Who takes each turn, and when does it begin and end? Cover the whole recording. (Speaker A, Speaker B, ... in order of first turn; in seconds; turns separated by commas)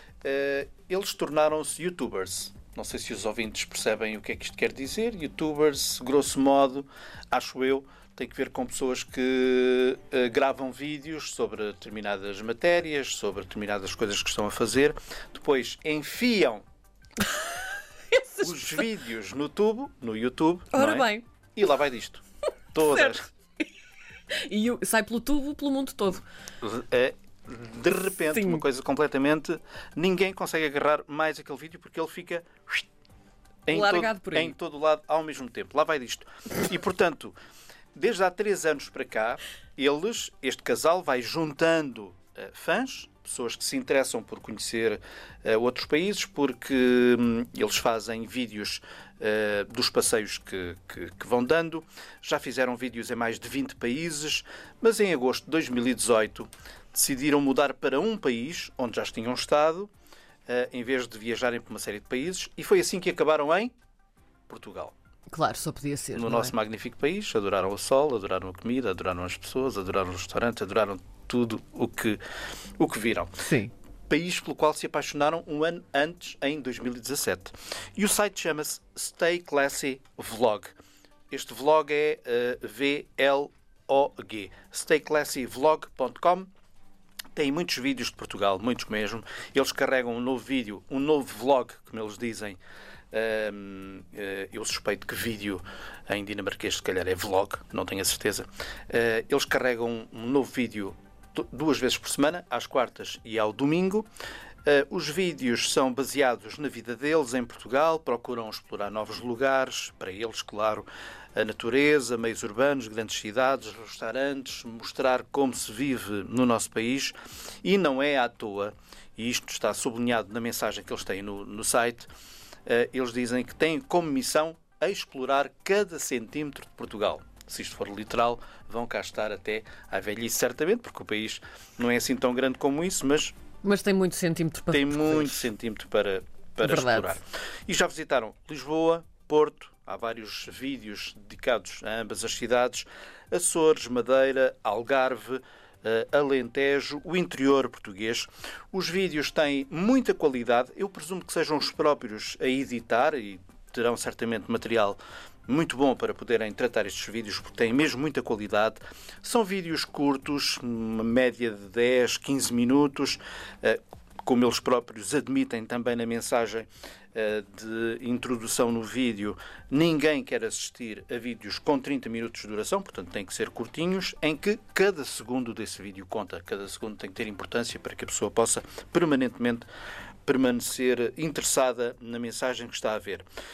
Speaker A: 0.2-16.6, Speaker B: 18.1-18.8, Speaker A: 18.4-22.2, Speaker B: 20.7-21.2, Speaker A: 22.7-23.3, Speaker B: 22.8-23.3, Speaker B: 24.3-26.2, Speaker A: 26.6-32.8, Speaker B: 28.3-28.6, Speaker A: 33.7-37.3, Speaker B: 33.7-34.5, Speaker A: 37.9-59.9, Speaker A: 60.5-63.7, Speaker A: 64.5-64.9, Speaker B: 65.3-66.5, Speaker A: 66.1-72.2, Speaker A: 72.8-73.3, Speaker B: 73.4-73.7, Speaker A: 74.1-80.7, Speaker A: 81.3-86.5, Speaker A: 87.3-92.6, Speaker A: 93.1-104.0, Speaker A: 104.6-122.1, Speaker A: 122.7-133.3, Speaker B: 133.6-135.5, Speaker A: 134.7-179.7, Speaker B: 136.6-137.2, Speaker A: 180.2-183.2